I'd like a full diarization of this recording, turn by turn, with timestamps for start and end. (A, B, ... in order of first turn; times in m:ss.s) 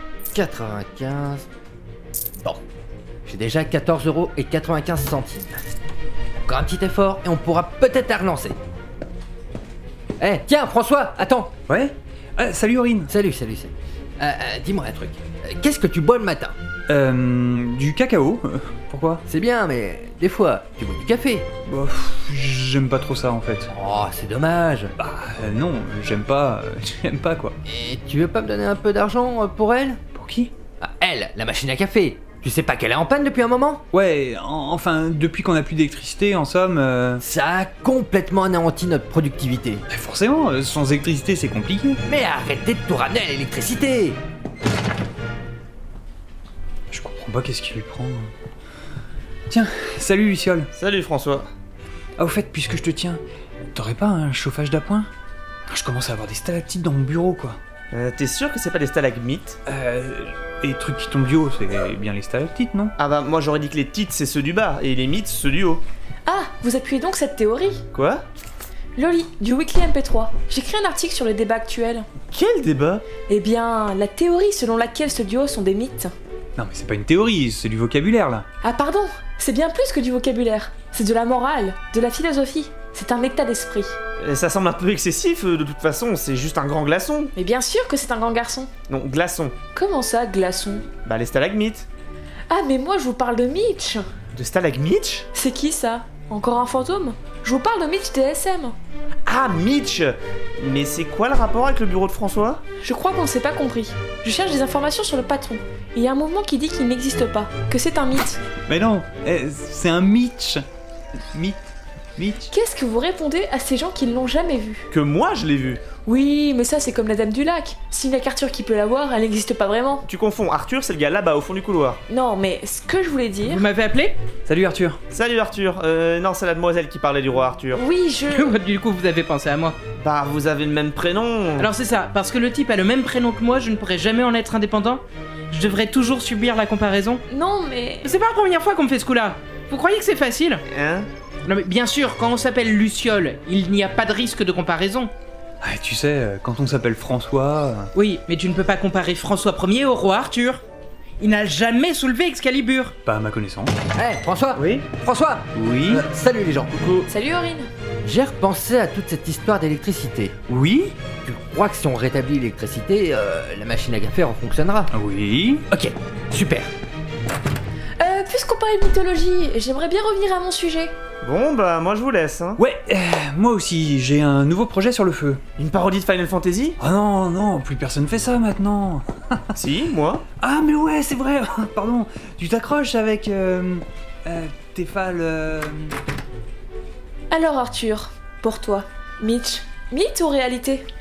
0:00.3-0:01.4 A
0:03.2-0:05.6 A
0:06.4-0:08.6 A
0:10.2-0:11.5 A
0:11.7-0:13.1 B
0:13.1-0:16.5 A
0:16.9-0:19.2 B
0:19.3-0:21.4 A
0:21.7-0:23.7 B
0:23.7-0:24.9 A
0:25.0-0:27.5 B
0:27.6-0:30.0 A
0:30.1-0:30.5 B
0:30.8-0:33.8 A
0:33.9-0:37.2 B
0:37.2-0:39.8 A
0:39.9-0:42.0 B
0:42.1-0:44.2 A
0:46.9-0:48.3 B
0:49.5-0:50.7 B
0:50.7-0:51.5 C
0:52.2-0:53.2 B
0:53.7-0:55.1 B
0:55.7-0:57.6 B
0:57.9-0:59.6 C
0:59.6-1:02.9 B
1:03.0-1:05.8 C
1:06.2-1:07.8 D
1:07.9-1:08.2 C
1:09.0-1:12.1 D
1:12.3-1:13.0 C
1:13.3-1:16.1 D
1:16.6-1:18.4 B
1:18.6-1:24.0 D
1:24.2-1:27.3 C
1:27.3-1:28.7 D
1:28.9-1:29.5 C
1:29.7-1:30.8 D
1:31.0-1:31.9 C
1:32.5-1:34.1 D
1:34.3-1:35.3 C
1:35.3-1:38.8 D
1:39.2-1:42.6 C
1:42.8-1:48.4 D
1:48.7-1:50.6 B
1:51.3-1:51.6 B
1:52.2-1:52.5 B
1:52.5-1:54.8 D
1:54.9-1:55.8 C
1:56.0-2:00.0 D
2:00.1-2:02.0 C
2:02.1-2:03.6 D
2:03.5-2:04.2 E
2:04.5-2:05.0 B
2:05.1-2:07.8 C
2:07.7-2:08.5 D
2:08.3-2:09.8 E
2:10.0-2:11.7 C
2:11.6-2:17.2 E
2:17.3-2:18.1 D
2:18.0-2:20.6 E
2:20.7-2:21.1 C
2:21.4-2:25.1 E
2:25.6-2:27.9 B
2:27.9-2:30.6 E
2:31.2-2:32.9 E
2:33.0-2:33.7 B
2:34.0-2:36.7 A
2:34.6-2:34.8 C
2:35.5-2:36.1 B
2:36.7-2:37.1 C
2:37.1-2:37.7 D
2:38.0-2:40.3 A
2:40.5-2:40.9 B
2:41.2-2:44.9 A
2:44.9-2:45.6 B
2:45.7-2:46.7 A
2:48.0-2:50.9 D
2:51.2-2:52.6 C
2:52.6-2:55.4 B
2:55.6-2:56.8 C
2:56.8-2:59.6 B
2:59.5-3:00.2 C
3:00.4-3:05.9 B
3:07.3-3:10.8 D